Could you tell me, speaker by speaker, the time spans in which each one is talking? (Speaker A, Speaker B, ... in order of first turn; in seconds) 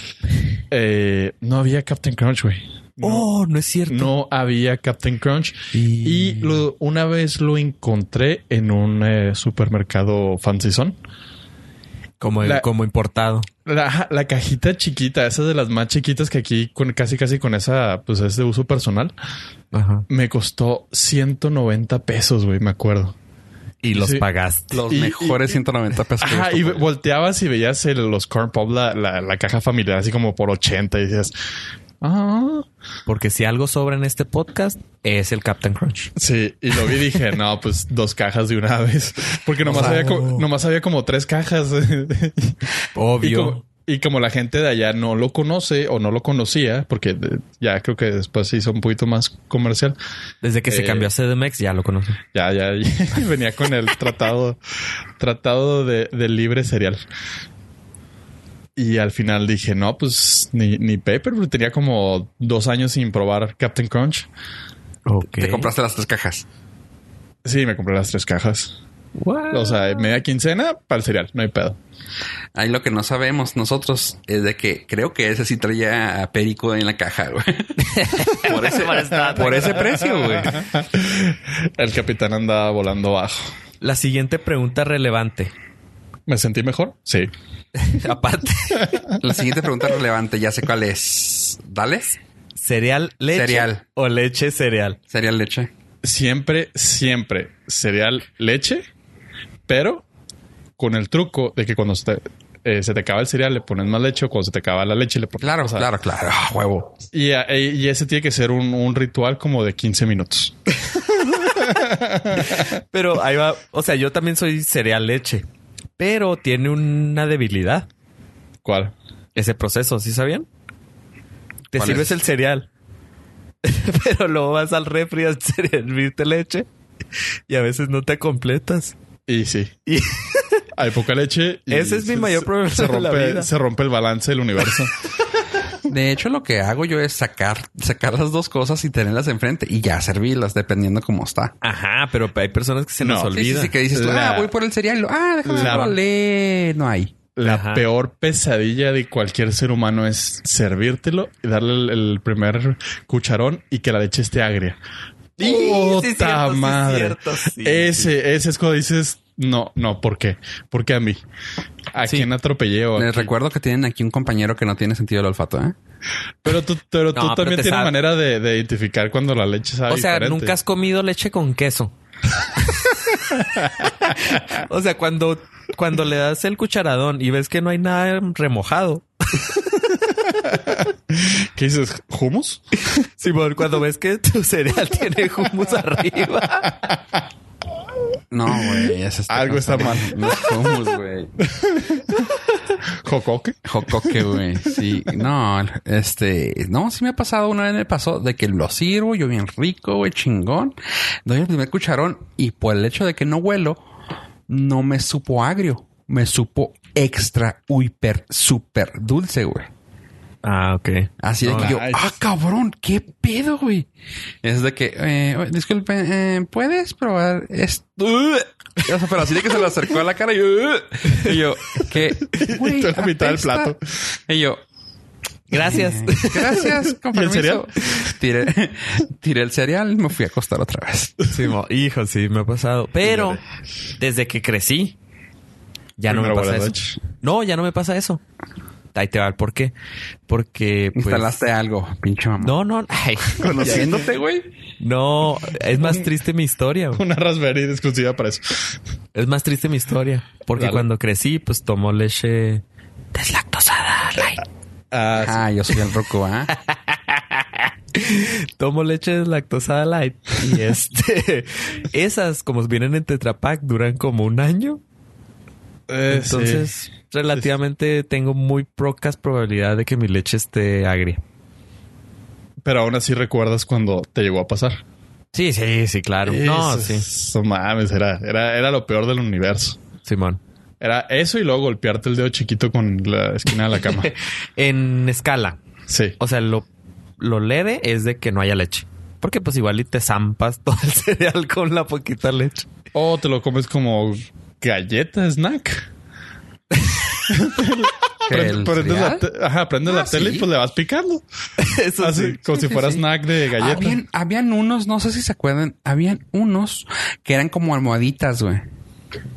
Speaker A: 0.7-3.3, 3.9-11.0, 13.6-19.1, 20.1-23.1, 23.9-24.2, 24.8-25.6, 26.2-31.3, 32.0-32.6, 36.1-42.5, 43.2-50.0, 50.7-51.1, 52.3-54.6, 55.2-57.0, 58.8-64.3, 67.4-68.7, 69.5-71.8, 79.5-83.5, 86.3-87.3, 96.0-98.8, 99.7-100.0, 100.8-105.9, 107.1-110.8, 111.3-112.7, 118.6-118.9, 129.3-129.8, 130.7-134.9, 143.0-144.5, 145.4-145.9, 147.3-154.8, 155.4-161.2, 161.9-163.3, 166.4-170.6, 180.4-182.6, 188.6-190.7, 191.4-192.2, 193.0-194.8, 211.5-212.1, 222.3-224.1, 227.0-227.7, 233.1-233.4, 236.1-237.0, 243.6-243.9, 245.7-246.0, 246.9-248.7, 250.5-250.8, 254.9-255.4, 265.9-266.7, 272.6-274.8, 276.2-279.8, 280.8-284.1, 285.9-286.1, 292.9-295.9, 297.3-301.2, 302.0-304.0
Speaker B: 3.0-4.1, 5.7-6.6, 12.2-13.5, 19.7-20.0, 23.8-24.8, 33.0-36.1, 39.6-40.5, 43.0-43.6, 50.4-52.2, 65.0-65.7, 69.2-70.1, 77.8-79.9, 83.8-85.5, 87.7-89.0, 92.6-95.0, 111.3-115.5, 116.0-117.9, 119.3-120.5, 121.7-122.7, 123.6-126.7, 127.5-128.9, 129.9-130.6, 131.7-133.5, 141.6-143.7, 145.6-145.9, 147.4-147.8, 155.4-158.1, 162.0-162.3, 167.1-167.9, 169.9-171.9, 172.6-173.1, 173.8-179.6, 182.9-186.8, 210.4-211.7, 225.5-226.7, 231.3-233.4, 234.0-234.9, 236.0-238.2, 238.9-239.7, 240.3-241.4, 242.4-243.9, 244.8-247.0, 249.1-252.6, 253.1-254.4, 256.5-264.8, 266.1-271.2, 275.3-277.1, 280.0-280.4, 283.8-285.6, 286.2-286.7, 287.2-292.7, 296.7-297.2, 301.6-303.0
Speaker C: 24.7-26.9, 65.3-66.4, 72.5-80.6, 89.2-92.2, 93.3-93.8, 95.1-95.7, 105.4-107.0, 121.8-122.2, 135.8-141.5, 143.3-147.2, 162.9-165.8, 188.3-191.3, 193.6-203.8, 204.5-209.7, 211.2-213.9, 214.4-223.8, 224.3-224.6, 225.6-231.2, 240.9-242.6, 243.4-244.5, 255.2-256.5, 298.2-299.3, 299.8-300.5, 303.6-308.6